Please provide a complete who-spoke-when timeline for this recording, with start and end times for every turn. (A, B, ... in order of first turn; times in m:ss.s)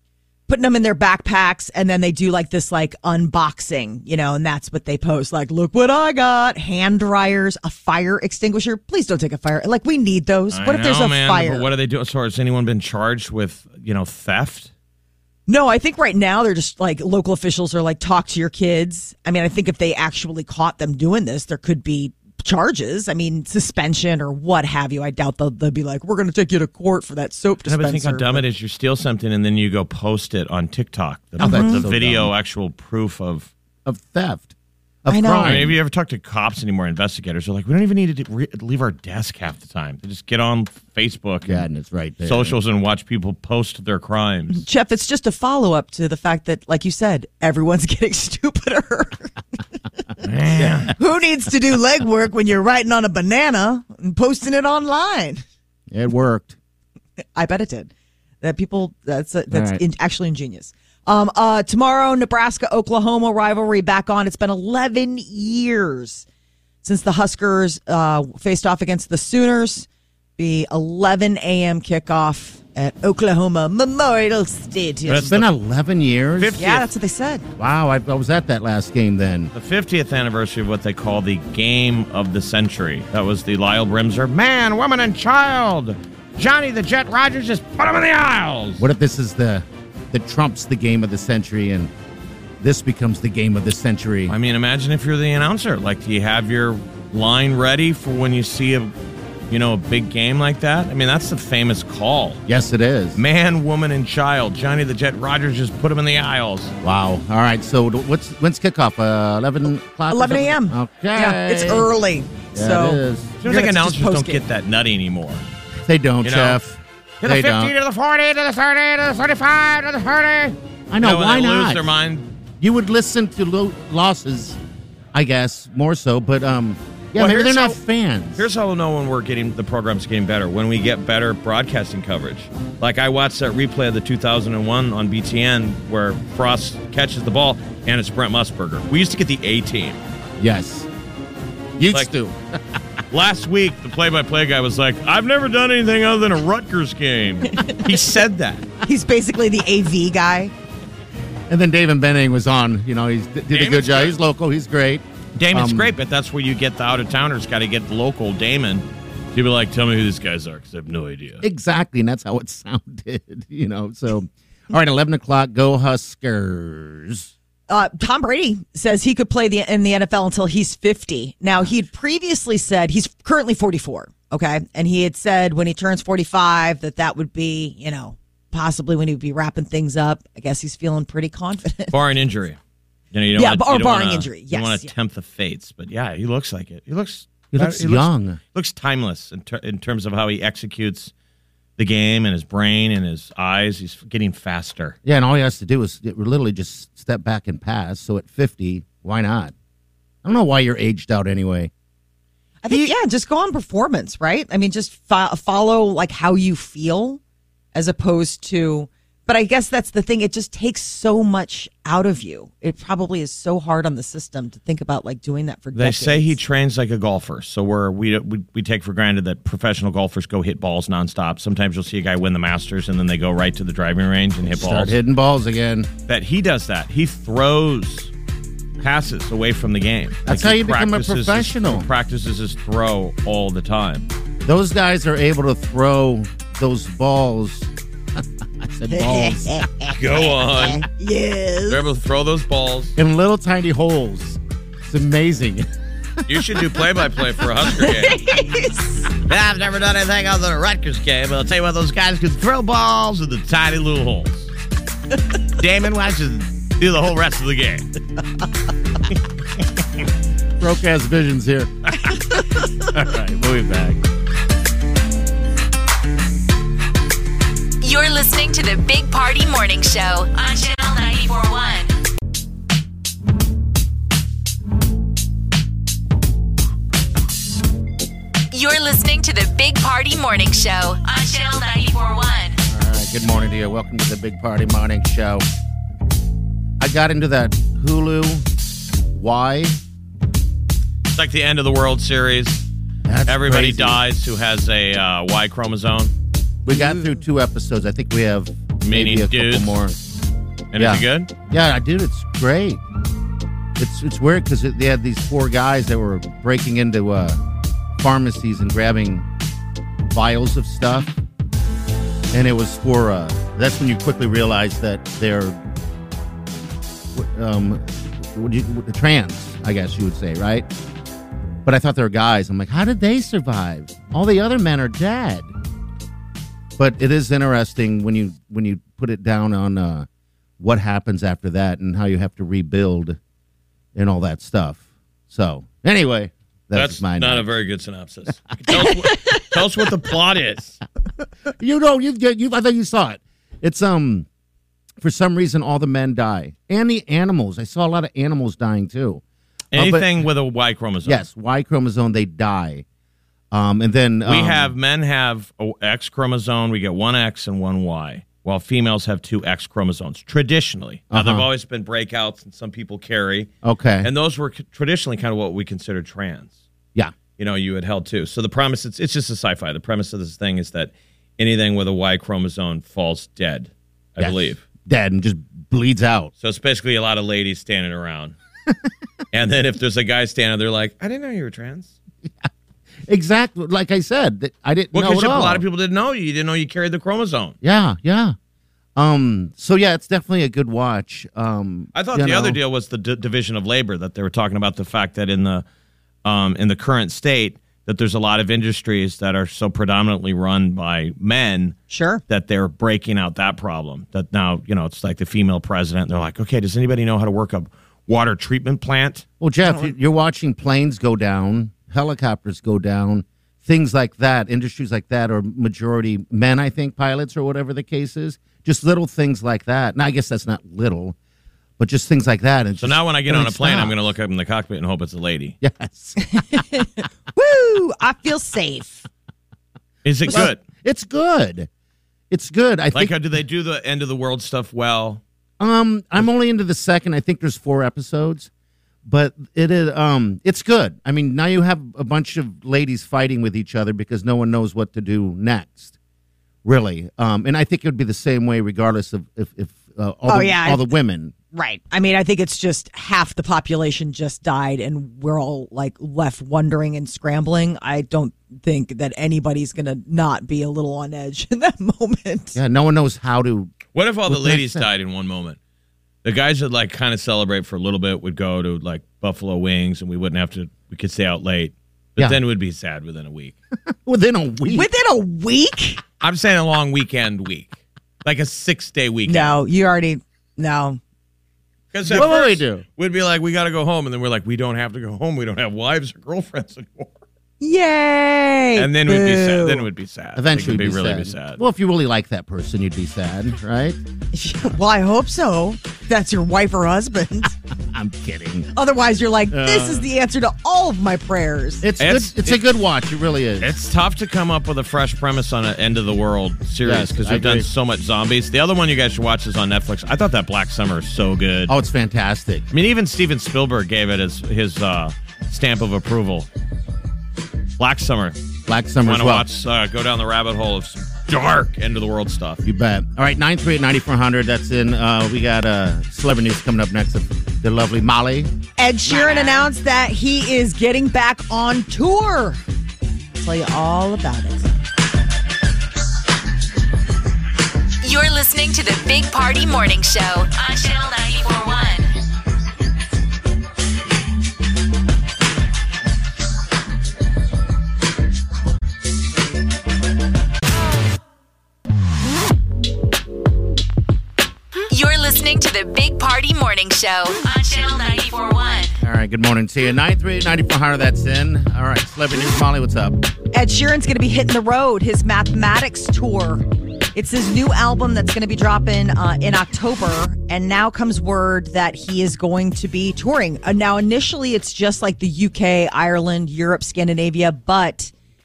0:00.5-0:11.7 A
0:10.5-0:14.7 B
0:15.5-0:28.4 A
0:27.7-0:33.5 B
0:31.4-0:32.3 C
0:31.4-0:31.8 A
0:33.8-0:34.5 C
0:35.0-0:35.8 C
0:35.1-0:35.6 A
0:35.4-0:41.7 B
0:41.4-0:42.6 C
0:42.2-0:44.6 B
0:44.5-0:49.6 A
0:50.2-0:50.9 B
0:50.5-0:50.9 C
0:51.0-0:55.4 A
0:55.9-0:56.6 C
0:57.3-0:57.9 A
0:58.4-1:06.2 A
0:59.5-0:59.8 C
1:06.8-1:15.4 A
1:15.1-1:16.6 C
1:16.4-1:16.9 B
1:16.6-1:17.4 A
1:17.6-1:19.5 C
1:19.5-1:28.8 B
1:28.8-1:31.9 C
1:32.6-1:34.3 C
1:34.3-1:38.9 B
1:39.5-1:42.4 B
1:42.5-1:43.2 C
1:43.2-1:46.7 B
1:46.8-1:51.9 C
1:50.1-1:54.4 A
1:52.5-1:53.3 C
1:53.4-1:55.4 B
1:55.8-1:57.7 C
1:56.2-1:56.6 B
1:57.2-2:02.3 B
2:00.9-2:01.9 C
2:02.6-2:04.6 C
2:05.1-2:08.5 C
2:07.2-2:07.8 B
2:08.4-2:20.0 B
2:20.4-2:20.9 C
2:21.8-2:22.4 C
2:23.1-2:28.7 B
2:27.5-2:27.8 A
2:28.8-2:30.5 A
2:31.5-2:35.9 C
2:33.5-2:34.2 B
2:35.4-2:41.4 B
2:41.4-2:47.3 C
2:47.7-3:01.9 A
3:01.9-3:02.6 B
3:03.1-3:11.1 B
3:03.4-3:04.9 A
3:07.5-3:08.4 C
3:11.8-3:15.0 B
3:15.0-3:19.5 C
3:20.2-3:21.7 C
3:22.6-3:27.2 A
3:27.7-3:36.4 A
3:35.7-3:45.0 B
3:44.4-3:45.9 C
3:46.1-3:48.1 B
3:48.8-3:54.1 B
3:50.2-3:51.9 C
3:54.4-3:59.7 C
3:58.9-4:01.8 A
3:59.9-4:00.9 B
4:01.7-4:03.0 B
4:03.0-4:05.7 C
4:06.2-4:08.3 B
4:07.8-4:09.1 A
4:09.3-4:14.5 B
4:15.6-4:17.8 B
4:20.6-4:21.7 C
4:22.8-4:24.0 C
4:27.8-4:31.9 D
4:38.5-4:42.6 D
4:42.6-4:45.4 C
4:46.8-4:48.4 C
4:49.1-4:49.8 C
4:51.1-4:52.6 B
4:53.0-4:54.0 C
4:53.3-4:56.1 B
4:56.6-5:00.0 C
4:56.7-4:57.0 A
4:58.8-4:59.8 B
5:00.7-5:01.3 B
5:00.7-5:02.8 C
5:03.8-5:07.4 C
5:08.0-5:09.3 C
5:10.1-5:11.2 C
5:12.3-5:15.6 C
5:17.1-5:20.7 C
5:21.6-5:25.5 C
5:26.8-5:30.1 C
5:30.6-5:33.2 C
5:33.9-5:37.5 C
5:36.7-5:40.8 B
5:41.6-5:44.3 C
5:45.0-5:49.2 C
5:49.7-5:51.2 B
5:49.7-5:50.2 C
5:51.0-5:52.8 C
5:53.5-5:54.7 C
5:54.2-6:03.5 B
6:01.1-6:01.4 C
6:03.6-6:04.1 C
6:04.0-6:06.5 B
6:07.4-6:14.6 B
6:14.2-6:16.3 C
6:16.4-6:18.4 B
6:19.3-6:21.9 B
6:23.0-6:25.6 C
6:24.9-6:27.5 B
6:27.6-6:28.4 C
6:29.0-6:32.6 C
6:31.9-6:35.6 B
6:36.2-6:49.2 B
6:41.9-6:42.2 A
6:49.4-7:01.2 C
6:49.6-6:49.9 A
7:01.8-7:04.0 C
7:02.8-7:05.6 B
7:05.6-7:06.6 C
7:06.2-7:09.1 A
7:10.0-7:10.6 B
7:10.3-7:11.7 C
7:12.3-7:13.1 C
7:12.9-7:15.2 B
7:15.6-7:18.5 C
7:19.0-7:25.9 C
7:26.6-7:31.3 C
7:30.3-7:30.9 A
7:31.5-7:42.6 A
7:42.5-7:43.8 C
7:43.9-7:45.6 B
7:44.3-7:44.8 C
7:46.2-7:53.5 B
7:53.9-7:54.9 C
7:54.7-7:56.0 A
7:56.2-7:59.5 B
7:59.2-8:01.0 A
8:01.9-8:07.1 B
8:02.0-8:02.8 C
8:07.6-8:09.8 A
8:08.8-8:11.6 B
8:10.4-8:14.0 C
8:14.3-8:17.5 A
8:17.9-8:18.7 C
8:18.7-8:21.8 A
8:19.5-8:20.1 C
8:21.8-8:23.7 C
8:22.0-8:22.6 B
8:23.6-8:31.7 B
8:26.8-8:27.7 C
8:31.7-8:32.6 C
8:32.7-8:36.5 B
8:37.8-8:38.4 B
8:38.7-8:39.4 C
8:39.0-8:42.6 B
8:42.6-8:48.5 C
8:48.8-8:52.6 A
8:49.1-8:49.5 C
8:53.4-8:54.7 A
8:58.0-9:02.1 D
9:14.9-9:19.0 D
9:19.0-9:23.2 C
9:23.5-9:38.1 A